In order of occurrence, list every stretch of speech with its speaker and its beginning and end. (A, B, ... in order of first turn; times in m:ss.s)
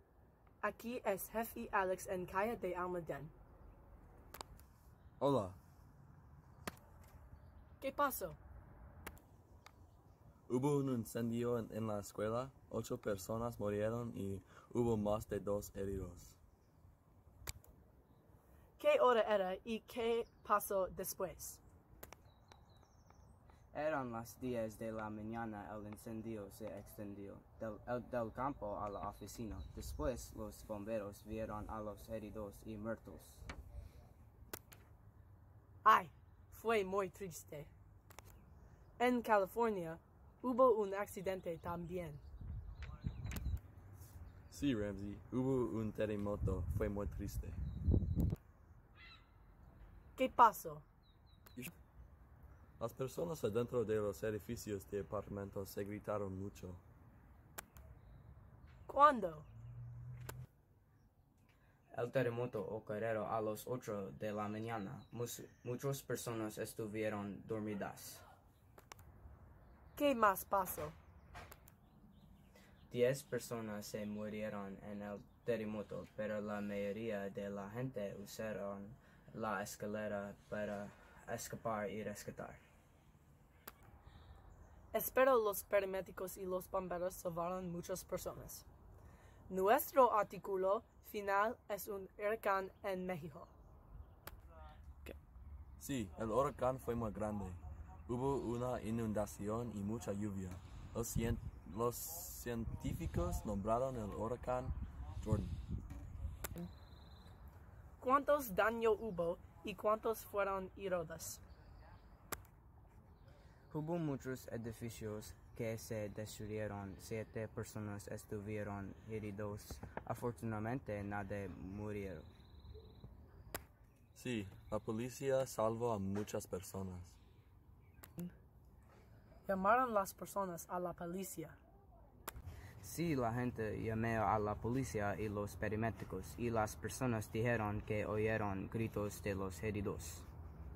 0:00.6-0:03.3 A
0:05.2-0:05.6 B
0:07.8-0:08.4 A
0:10.5-0:16.4 B
0:18.8-0:21.6 A
0:23.7-0:33.4 C
0:35.8-0:37.7 A
0:39.0-0:42.2 A
0:44.5-0:47.6 B
0:50.2-0:50.8 A
0:52.8-0:56.8 B
0:58.9-0:59.5 A
1:01.9-1:08.2 C
1:10.0-1:11.0 A
1:12.9-1:22.6 C
1:24.9-1:28.6 A
1:29.5-1:33.5 A
1:35.8-1:45.6 B
1:48.0-1:51.4 A
1:53.7-2:02.3 C
2:04.1-2:07.2 B
2:09.5-2:11.6 A
2:12.8-2:20.2 C